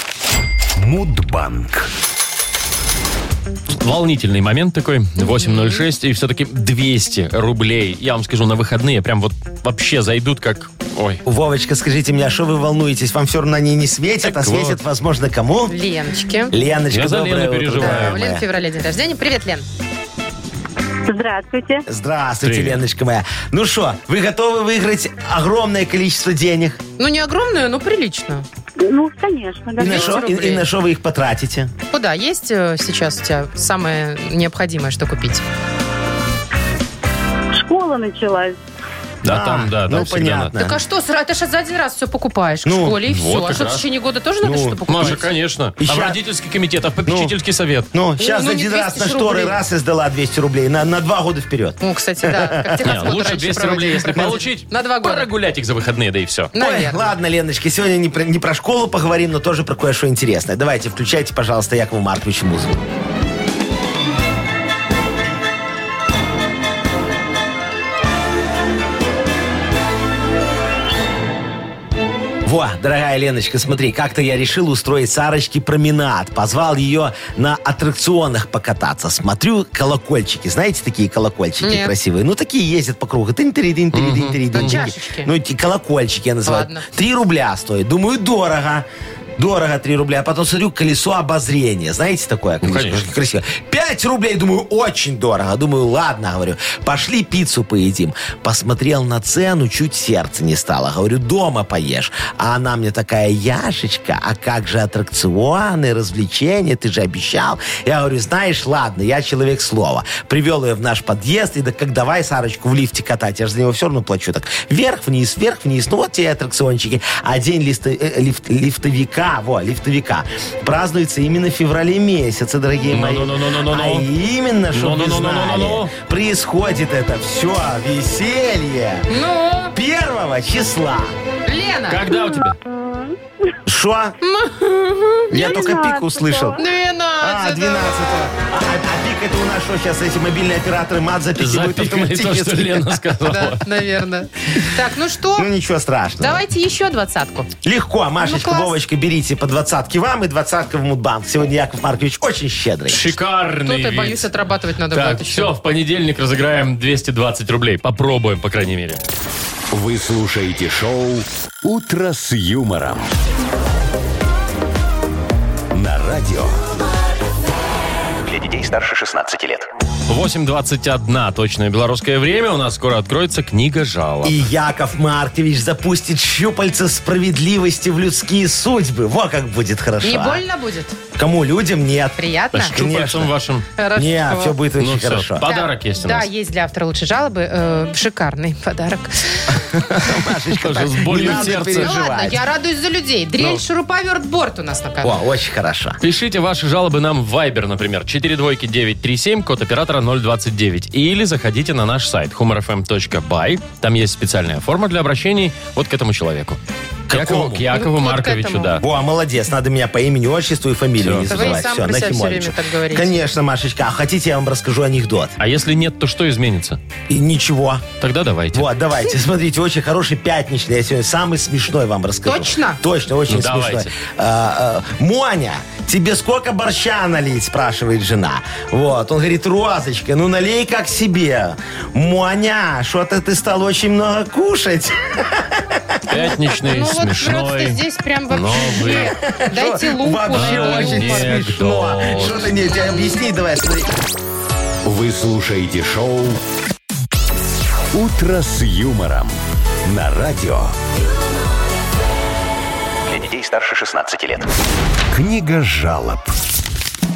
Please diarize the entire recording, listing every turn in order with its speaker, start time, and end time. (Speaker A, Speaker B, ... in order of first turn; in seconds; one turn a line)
Speaker A: 0.8-1.9
Speaker B: 3.8-11.2
Speaker C: 5.2-5.8
Speaker D: 11.2-15.8
Speaker B: 14.2-14.8
Speaker C: 15.7-16.5
Speaker D: 16.5-18.4
Speaker B: 16.9-18.2
Speaker C: 17.8-19.6
Speaker E: 21.1-21.8
Speaker D: 21.9-26.8
Speaker B: 22.4-22.8
Speaker C: 27.0-28.4
Speaker E: 28.8-30.5
Speaker C: 29.8-30.6
Speaker D: 29.8-31.7
Speaker C: 31.9-35.4
Speaker E: 37.5-38.6
Speaker B: 39.2-40.5
Speaker D: 39.2-40.8
Speaker C: 40.6-45.2
Speaker D: 42.6-43.0
Speaker B: 43.1-43.9
Speaker D: 44.4-45.2
Speaker B: 44.9-47.9
Speaker D: 45.8-46.2
Speaker D: 47.0-47.3
Speaker D: 47.9-52.9
Speaker C: 48.2-49.6
Speaker C: 51.8-55.3
Speaker B: 52.8-56.5
Speaker C: 56.5-57.1
Speaker D: 56.6-62.8
Speaker D: 72.4-88.8
Speaker C: 81.6-81.9
Speaker B: 83.9-84.8
Speaker C: 84.5-85.3
Speaker C: 86.4-86.8
Speaker D: 89.4-129.1
Speaker B: 92.6-93.0
Speaker B: 122.9-124.1
Speaker B: 124.7-125.9
Speaker C: 129.1-129.8
Speaker D: 129.7-131.1
Speaker C: 131.4-132.1
Speaker B: 131.9-132.6
Speaker E: 132.1-133.2
Speaker D: 133.7-134.2
Speaker C: 134.2-135.6
Speaker D: 135.3-136.6
Speaker E: 135.3-136.6
Speaker C: 136.6-138.2
Speaker D: 137.2-143.0
Speaker B: 141.4-143.8
Speaker C: 143.2-145.5
Speaker D: 145.3-146.4
Speaker C: 146.2-147.5
Speaker D: 147.6-153.2
Speaker C: 148.2-148.8
Speaker B: 152.9-154.3
Speaker C: 153.6-155.5
Speaker B: 154.9-159.0
Speaker A: 159.7-163.1
Speaker A: 165.7-166.6
Speaker F: 168.2-169.7
Speaker B: 170.1-174.4
Speaker D: 174.2-180.4
Speaker C: 180.0-181.0
Speaker D: 181.2-183.3
Speaker C: 182.2-182.7
Speaker B: 182.5-183.7
Speaker C: 183.8-184.6
Speaker D: 183.9-185.4
Speaker B: 184.8-186.3
Speaker C: 185.4-189.8
Speaker D: 189.5-192.4
Speaker B: 190.5-191.9
Speaker C: 191.2-195.2
Speaker D: 195.0-196.0
Speaker B: 196.0-206.6
Speaker D: 207.1-207.7
Speaker B: 207.1-208.8
Speaker C: 207.7-208.8
Speaker D: 208.8-215.3
Speaker B: 211.0-211.6
Speaker C: 211.3-213.2
Speaker B: 215.4-216.8
Speaker D: 217.1-217.8
Speaker B: 218.0-218.7
Speaker D: 218.5-236.0
Speaker C: 222.2-222.8
Speaker B: 223.3-223.9
Speaker B: 236.1-239.1
Speaker C: 236.1-241.4
Speaker D: 238.8-243.9
Speaker B: 240.3-242.5
Speaker A: 244.8-246.4
Speaker A: 247.9-250.7
Speaker F: 253.0-254.5
Speaker A: 255.1-256.3